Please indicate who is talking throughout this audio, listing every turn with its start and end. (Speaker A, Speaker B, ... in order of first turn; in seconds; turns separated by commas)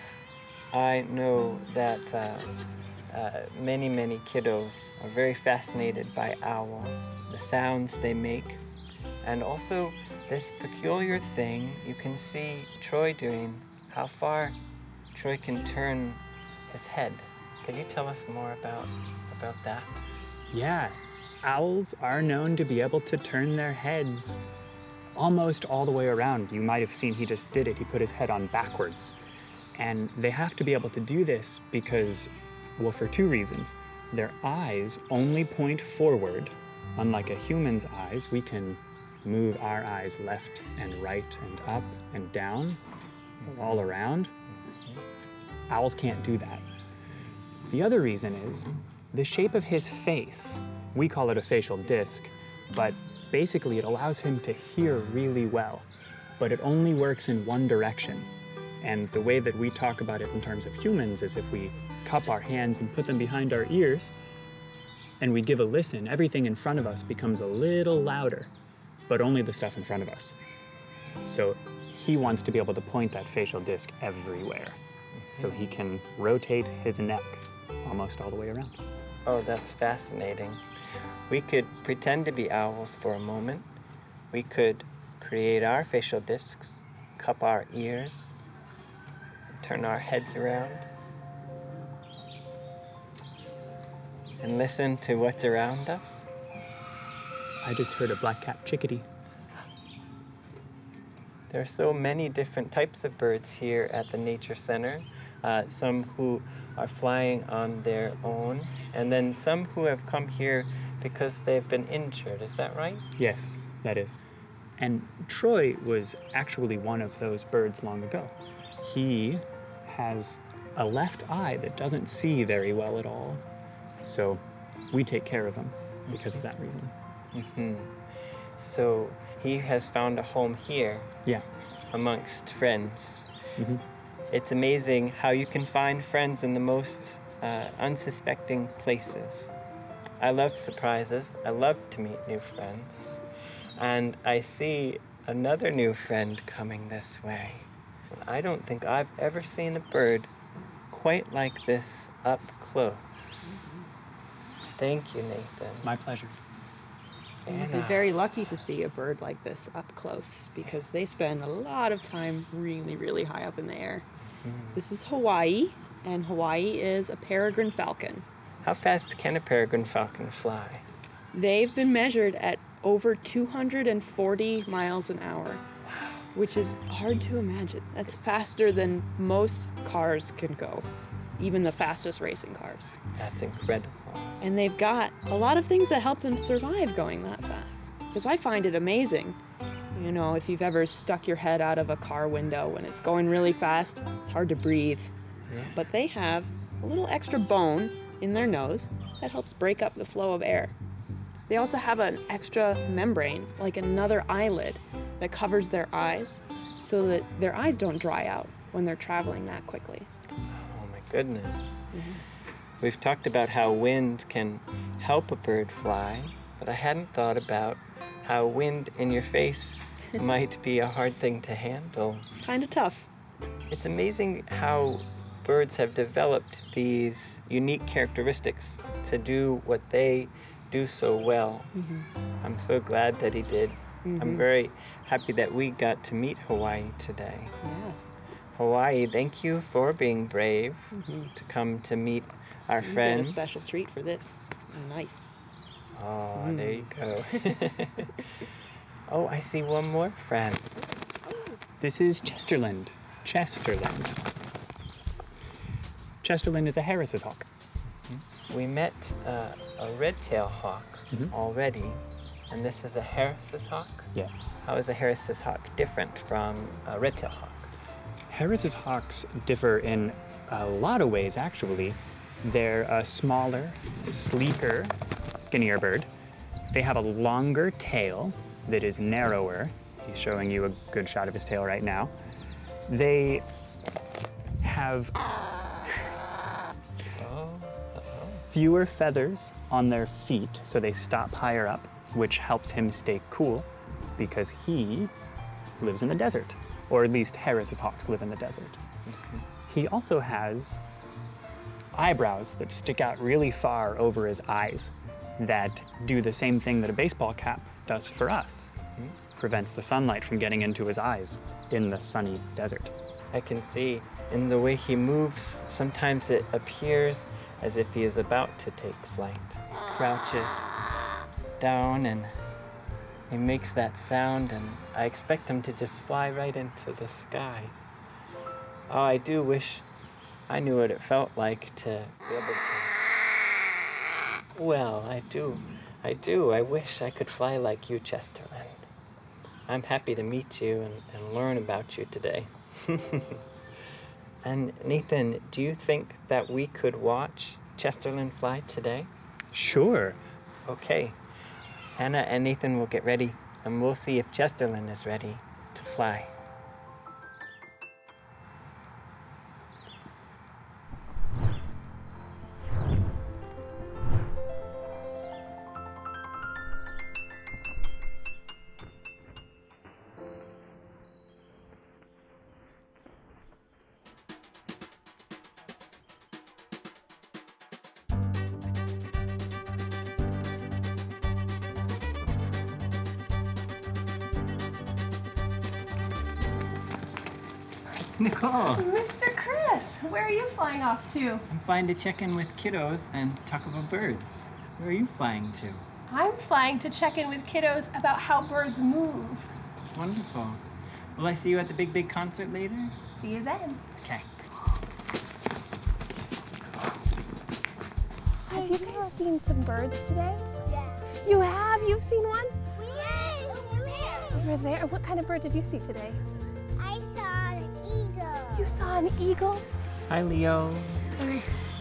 Speaker A: 0.7-2.5, Speaker A: 3.1-8.6, Speaker A: 9.2-14.6, Speaker A: 15.1-20.0, Speaker B: 20.5-24.4, Speaker B: 25.1-29.1, Speaker B: 29.8-42.8, Speaker A: 43.4-43.6, Speaker B: 43.5-44.3, Speaker A: 44.6-45.0, Speaker B: 45.7-46.6, Speaker B: 47.6-55.9, Speaker B: 56.4-58.3, Speaker B: 58.8-64.1, Speaker B: 65.2-68.5, Speaker B: 69.1-70.3, Speaker B: 71.2-74.8, Speaker A: 75.2-75.6, Speaker B: 75.4-78.8, Speaker A: 79.2-80.6, Speaker A: 81.3-83.7, Speaker A: 84.3-88.3, Speaker A: 89.6-90.9, Speaker A: 94.4-96.3, Speaker B: 97.6-99.1, Speaker A: 101.5-113.1, Speaker B: 113.2-114.2, Speaker B: 114.8-123.4, Speaker B: 124.0-124.4, Speaker B: 124.9-126.9, Speaker A: 126.1-126.4, Speaker A: 127.3-128.0, Speaker A: 128.6-131.1, Speaker A: 131.9-133.3, Speaker A: 134.3-139.5, Speaker A: 140.2-143.2, Speaker A: 143.8-150.3, Speaker A: 150.9-153.6, Speaker A: 154.8-155.9, Speaker B: 155.8-156.3, Speaker A: 157.4-158.1, Speaker C: 157.5-164.1, Speaker A: 164.4-164.8, Speaker C: 164.7-168.2, Speaker A: 168.6-170.9, Speaker C: 171.3-175.6, Speaker C: 176.3-183.0, Speaker A: 183.2-184.4, Speaker C: 184.4-189.4, Speaker C: 189.9-195.1, Speaker A: 195.5-195.8, Speaker C: 195.7-200.8, Speaker C: 201.5-210.1, Speaker A: 210.5-211.9, Speaker C: 211.9-212.2, Speaker A: 212.8-222.3, Speaker C: 222.4-223.1, Speaker A: 223.7-231.8, Speaker C: 231.7-232.1, Speaker A: 232.4-237.6, Speaker C: 234.1-234.5, Speaker C: 237.6-238.1, Speaker A: 238.5-243.7, Speaker C: 240.9-241.3, Speaker C: 242.8-245.3, Speaker A: 245.9-248.5, Speaker C: 246.4-246.9, Speaker A: 249.1-250.7, Speaker C: 251.3-251.6, Speaker B: 251.8-254.2, Speaker B: 256.2-257.5, Speaker A: 258.1-264.1, Speaker A: 264.6-267.7, Speaker B: 268.3-276.1, Speaker B: 276.7-282.1, Speaker B: 282.9-283.4, Speaker B: 284.6-285.2, Speaker A: 287.1-288.4, Speaker B: 288.5-295.1, Speaker B: 295.8-298.8, Speaker A: 299.1-299.5, Speaker B: 299.7-300.8, Speaker B: 301.9-308.7, Speaker B: 309.4-312.9, Speaker A: 313.3-320.7, Speaker A: 321.6-322.4, Speaker A: 323.3-327.8, Speaker A: 328.9-329.9, Speaker A: 330.5-333.0, Speaker A: 334.5-338.9, Speaker A: 339.7-343.4, Speaker A: 344.4-349.1, Speaker B: 349.5-350.2, Speaker A: 350.7-351.2, Speaker A: 352.0-356.3, Speaker A: 388.1-388.9, Speaker D: 388.7-391.4, Speaker A: 391.5-395.8, Speaker D: 396.1-399.5, Speaker A: 399.9-400.6, Speaker A: 401.2-403.0, Speaker D: 403.1-403.8, Speaker A: 404.0-404.4, Speaker D: 408.4-410.5, Speaker E: 410.7-411.1, Speaker D: 411.2-412.6, Speaker E: 412.7-414.5, Speaker D: 414.3-416.2, Speaker E: 416.8-418.8, Speaker D: 418.6-419.6, Speaker A: 420.1-421.1